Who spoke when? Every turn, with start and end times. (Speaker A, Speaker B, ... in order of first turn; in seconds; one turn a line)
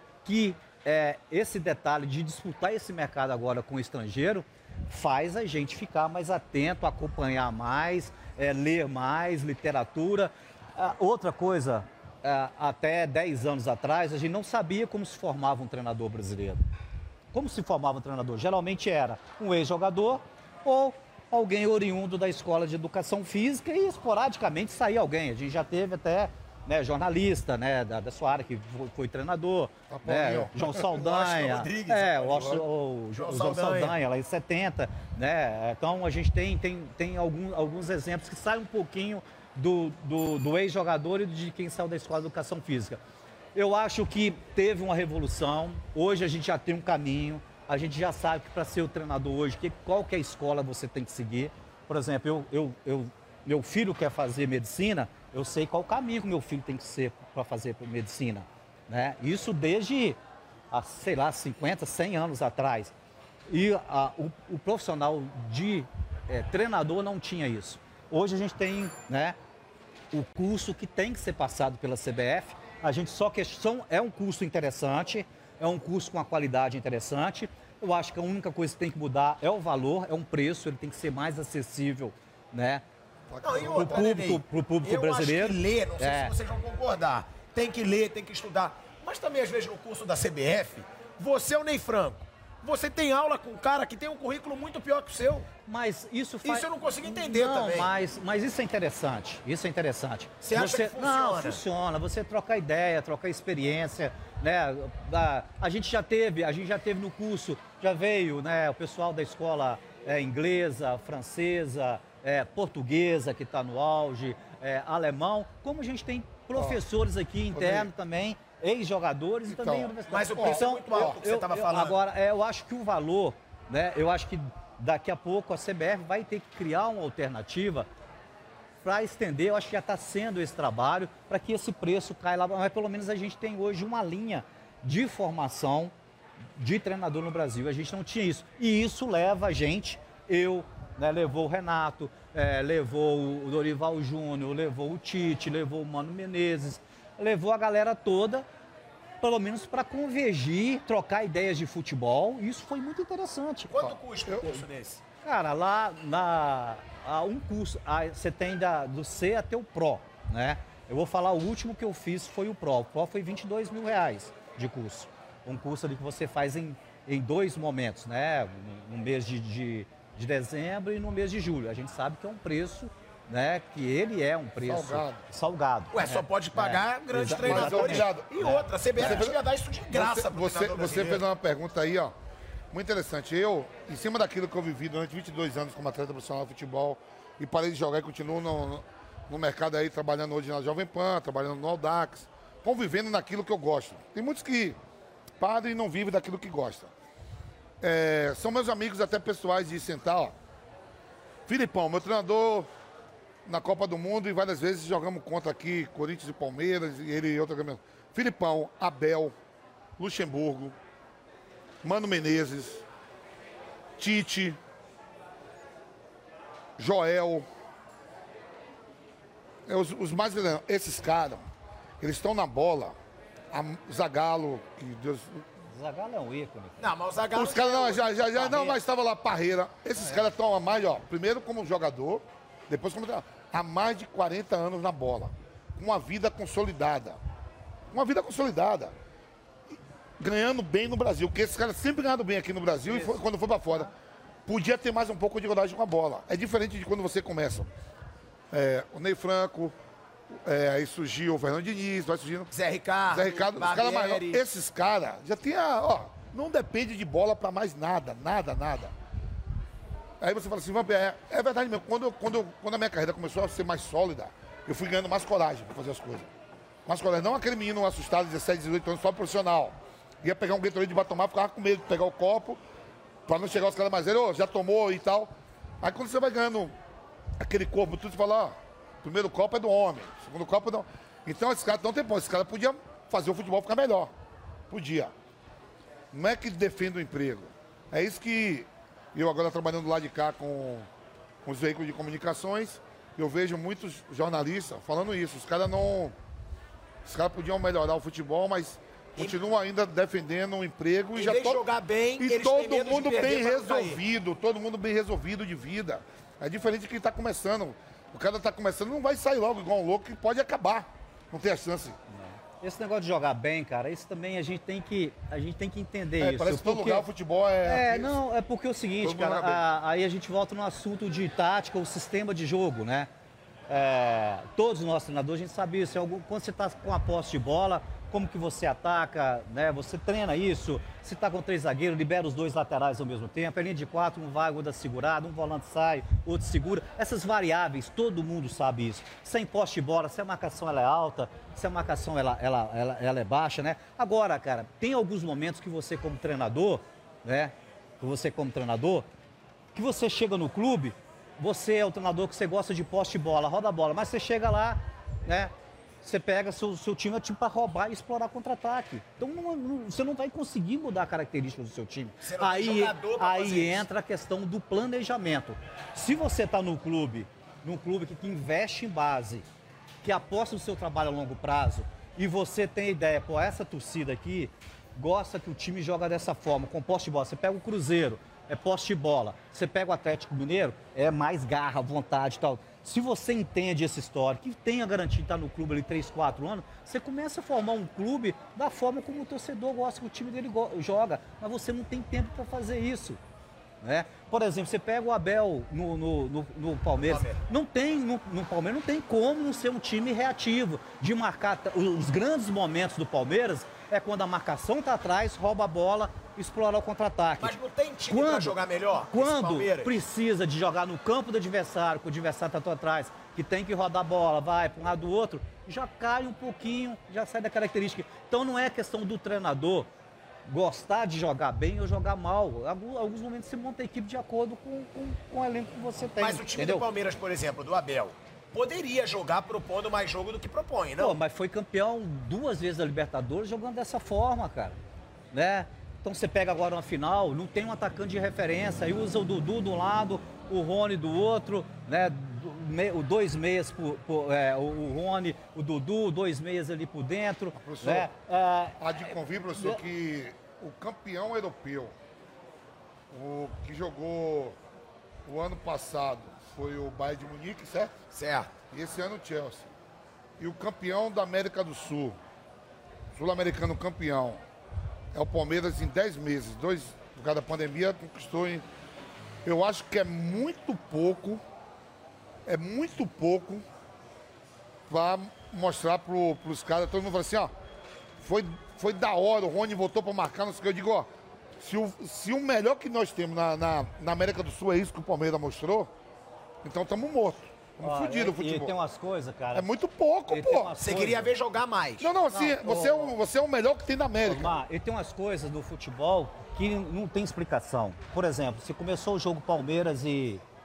Speaker A: 0.2-16.6
Speaker A: 17.3-43.0
Speaker B: 29.9-30.8
Speaker C: 30.7-34.0
Speaker A: 43.5-60.2
Speaker A: 60.7-62.9
Speaker A: 63.5-69.4
Speaker A: 70.1-82.8
Speaker B: 83.3-84.1
Speaker C: 83.4-95.5
Speaker A: 83.7-86.3
Speaker A: 95.7-127.9
Speaker C: 96.4-97.9
Speaker C: 100.4-101.6
Speaker B: 116.5-116.8
Speaker B: 117.5-117.9
Speaker B: 119.5-121.2
Speaker C: 120.1-122.0
Speaker A: 128.8-135.9
Speaker A: 136.6-148.4
Speaker A: 149.2-153.7
Speaker C: 153.7-155.0
Speaker B: 153.8-154.4
Speaker A: 155.2-179.2
Speaker B: 174.6-175.2
Speaker C: 175.9-181.2
Speaker B: 177.4-179.4
Speaker B: 179.9-182.1
Speaker B: 182.7-194.8
Speaker B: 195.4-196.9
Speaker B: 197.8-200.3
Speaker B: 201.5-202.7
Speaker B: 203.4-209.3
Speaker B: 210.0-210.8
Speaker B: 211.8-212.8
Speaker B: 214.0-214.6
Speaker B: 216.8-217.4
Speaker B: 219.7-221.4
Speaker B: 222.0-222.9
Speaker B: 223.5-225.4
Speaker A: 225.7-226.9
Speaker C: 226.8-228.8
Speaker B: 227.3-237.2
Speaker B: 237.9-238.9
Speaker B: 239.7-243.9
Speaker A: 242.9-243.9
Speaker B: 244.4-247.7
Speaker B: 248.5-249.7
Speaker B: 250.3-252.5
Speaker C: 252.5-254.4
Speaker B: 253.1-258.9
Speaker B: 260.2-266.3
Speaker B: 266.9-272.6
Speaker B: 273.2-276.7
Speaker B: 277.4-284.1
Speaker B: 284.7-285.1
Speaker B: 286.1-290.9
Speaker B: 291.4-296.1
Speaker B: 297.0-301.6
Speaker C: 301.1-304.0
Speaker B: 302.2-312.0
Speaker A: 312.1-317.1
Speaker B: 316.2-318.2
Speaker A: 317.6-323.1
Speaker B: 319.0-319.6
Speaker A: 323.7-349.1
Speaker A: 349.7-355.5
Speaker A: 356.0-369.4
Speaker C: 362.2-363.9
Speaker A: 370.0-393.2
Speaker A: 393.8-407.5
Speaker C: 397.0-397.4
Speaker C: 407.4-409.9
Speaker A: 408.1-408.6
Speaker A: 409.1-419.9
Speaker A: 420.5-426.9
Speaker C: 426.2-431.2
Speaker A: 431.0-434.8
Speaker A: 435.3-448.9
Speaker B: 447.5-448.1
Speaker B: 448.8-451.9
Speaker A: 449.6-449.8
Speaker B: 453.1-454.6
Speaker B: 455.2-457.9
Speaker C: 458.1-458.5
Speaker B: 458.7-459.7
Speaker B: 460.4-462.2
Speaker B: 463.1-464.4
Speaker B: 465.1-468.6
Speaker B: 469.4-471.4
Speaker B: 472.4-473.6
Speaker B: 474.9-477.5
Speaker B: 478.2-485.9
Speaker B: 486.6-488.7
Speaker A: 487.8-489.7
Speaker B: 489.5-490.8
Speaker A: 490.3-491.3
Speaker C: 490.8-492.1
Speaker B: 492.0-494.6
Speaker A: 492.3-493.1
Speaker A: 494.2-500.4